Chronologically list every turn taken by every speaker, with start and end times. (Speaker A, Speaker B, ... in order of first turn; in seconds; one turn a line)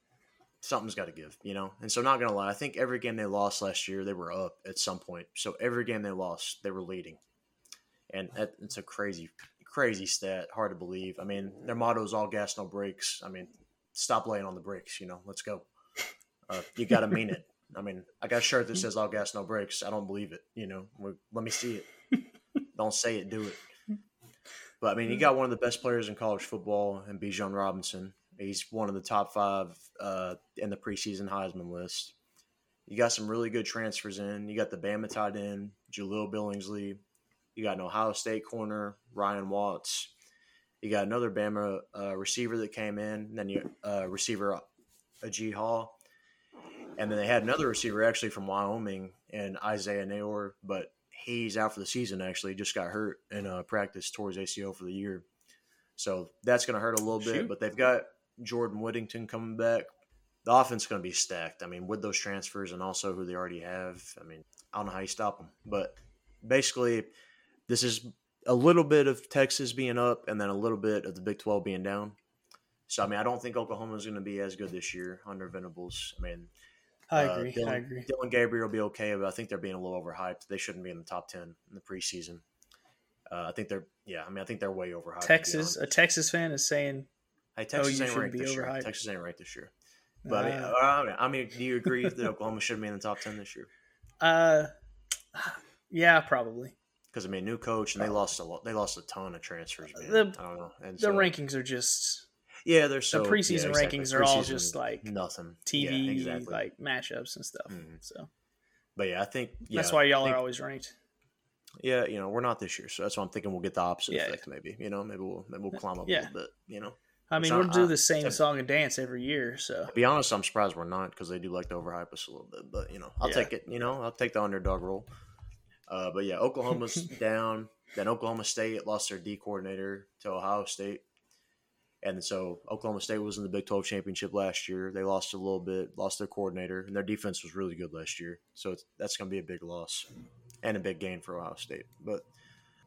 Speaker A: 0.6-7.2
Speaker A: 8.1-15.7
Speaker A: 16.5-21.9
Speaker A: 22.7-23.6
Speaker A: 24.8-32.1
Speaker A: 32.9-37.0
Speaker A: 37.5-40.1
Speaker A: 40.8-44.6
Speaker A: 45.2-46.0
Speaker A: 47.0-55.2
Speaker A: 56.0-59.9
Speaker B: 57.2-57.5
Speaker A: 60.4-67.1
Speaker A: 67.7-72.2
Speaker A: 72.9-76.5
Speaker B: 77.1-78.1
Speaker A: 77.1-82.4
Speaker A: 83.3-85.9
Speaker B: 85.2-87.1
Speaker A: 87.5-89.7
Speaker B: 87.8-88.9
Speaker B: 90.2-90.7
Speaker A: 90.3-93.7
Speaker B: 91.8-92.2
Speaker B: 94.2-94.7
Speaker B: 95.3-96.7
Speaker A: 97.1-101.3
Speaker B: 99.9-100.3
Speaker B: 101.0-102.2
Speaker A: 102.6-106.6
Speaker B: 103.1-105.1
Speaker B: 105.7-108.3
Speaker A: 107.7-108.0
Speaker A: 109.0-110.4
Speaker B: 109.7-110.9
Speaker A: 111.8-118.4
Speaker B: 114.1-114.4
Speaker B: 117.3-119.9
Speaker A: 119.9-125.1
Speaker B: 123.2-123.5
Speaker A: 125.9-131.0
Speaker A: 132.0-140.1
Speaker A: 140.6-142.3